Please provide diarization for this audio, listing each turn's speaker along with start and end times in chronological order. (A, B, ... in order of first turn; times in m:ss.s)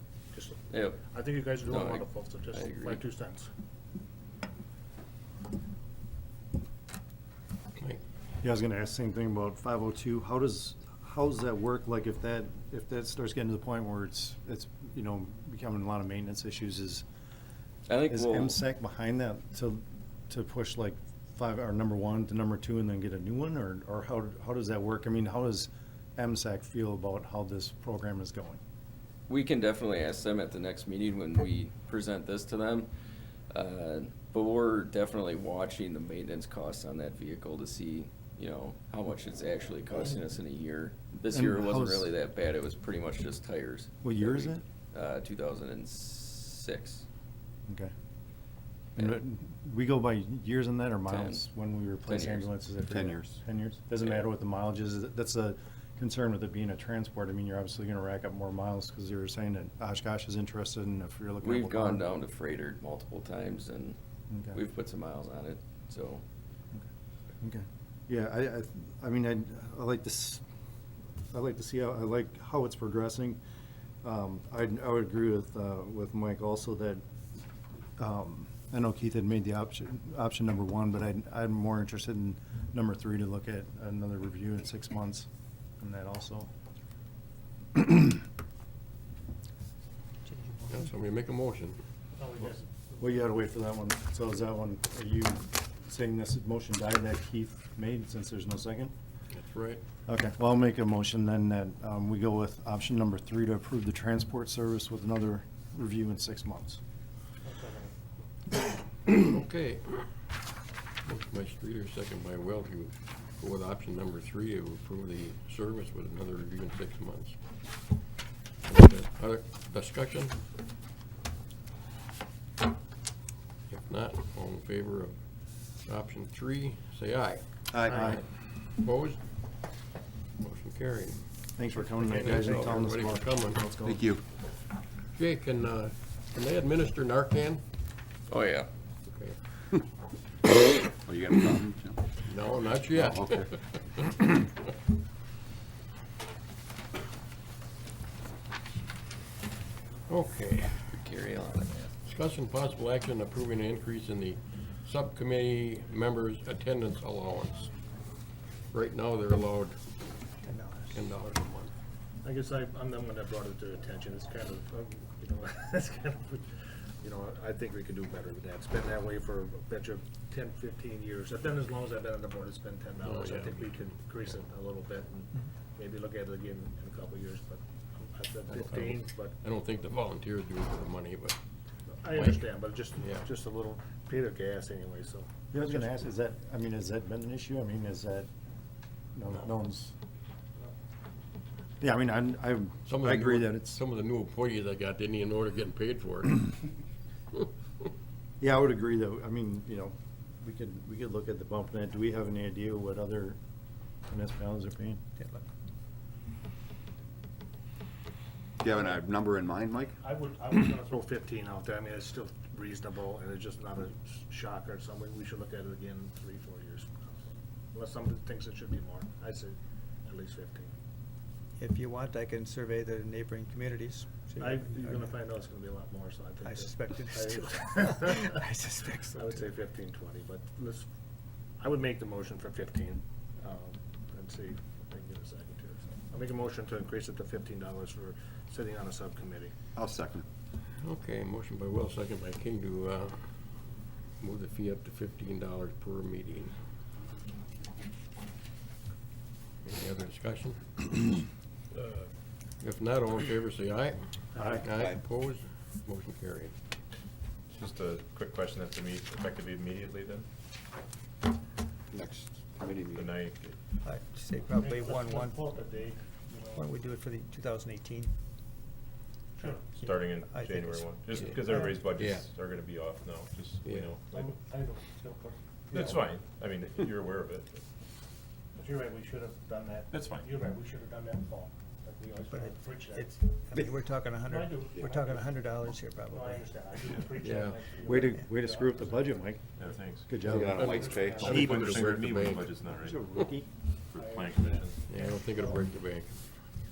0:00.3-0:03.5 A
0:00.7-0:03.0 B
0:08.4-0:17.0 C
0:17.9-0:18.6 B
0:18.0-0:28.6 C
0:29.3-0:32.9 B
0:33.5-0:47.0 B
0:41.3-0:42.1 C
0:44.0-0:44.6 C
0:49.0-1:02.0 C
0:51.0-0:51.4 B
0:52.0-0:52.5 B
0:52.8-0:53.4 D
1:01.4-1:04.0 B
1:04.3-1:04.6 C
1:04.5-1:06.2 B
1:07.4-1:10.4 C
1:11.3-1:13.4 C
1:14.0-1:17.0 C
1:18.0-1:25.3 C
1:25.8-1:26.5 C
1:27.8-1:28.1 C
1:30.2-1:30.8 E
1:30.7-1:31.8 F
1:32.2-1:33.2 A
1:33.0-1:38.9 C
1:39.3-1:39.8 F
1:40.1-1:46.8 C
1:47.4-1:48.0 A
1:49.1-1:50.2 F
1:51.0-1:57.4 F
1:58.6-2:00.3 F
2:03.7-2:05.1 F
2:05.8-2:09.2 F
2:07.7-2:08.2 C
2:10.4-2:11.2 F
2:11.6-2:14.0 C
2:11.8-2:12.4 E
2:12.1-2:13.7 F
2:13.8-2:14.2 D
2:15.1-2:17.6 F
2:18.3-2:18.7 B
2:21.0-2:22.2 D
2:22.2-2:24.5 F
2:22.9-2:23.5 D
2:30.1-2:30.9 F
2:31.0-2:31.9 B
2:32.0-2:37.7 F
2:38.7-2:39.8 F
2:40.4-2:41.0 E
2:40.9-2:41.7 F
2:42.2-2:59.4 A
2:53.0-2:53.7 F
2:58.5-3:01.4 F
3:01.9-3:05.9 A
3:02.0-3:03.3 F
3:05.5-3:08.3 C
3:09.1-3:09.9 C
3:11.8-3:13.8 C
3:12.9-3:16.5 F
3:18.4-3:23.4 C
3:24.1-3:25.0 C
3:25.2-3:25.5 E
3:28.6-3:30.0 D
3:30.0-3:40.8 A
3:41.6-3:45.1 E
3:44.4-3:48.4 A
3:46.4-3:49.5 E
3:49.1-3:50.9 A
3:51.6-3:59.5 A
3:59.7-4:00.2 D
4:00.8-4:03.6 F
4:04.2-4:06.5 F
4:09.6-4:11.1 F
4:12.6-4:16.5 F
4:14.4-4:14.7 A
4:14.7-4:15.0 D
4:21.9-4:23.2 D
4:23.8-4:25.4 E
4:24.6-4:26.6 A
4:26.5-4:28.1 E
4:29.4-4:29.6 A
4:29.7-4:31.5 E
4:29.8-4:31.4 G
4:31.9-4:32.2 F
4:31.9-4:32.3 G
4:34.1-4:35.9 A
4:35.7-4:36.8 G
4:38.6-4:43.2 A
4:42.3-4:47.0 E
4:44.2-4:45.3 A
4:46.1-4:49.3 A
4:47.2-4:47.6 F
4:47.8-4:49.4 C
4:49.6-4:50.1 G
4:50.1-4:51.4 C
4:50.2-4:51.9 D
4:50.3-4:52.5 F
4:50.4-4:51.5 A
4:51.0-4:53.0 G
4:52.7-4:53.5 C
4:53.9-4:55.6 A
4:54.1-4:54.7 G
4:54.8-4:56.2 F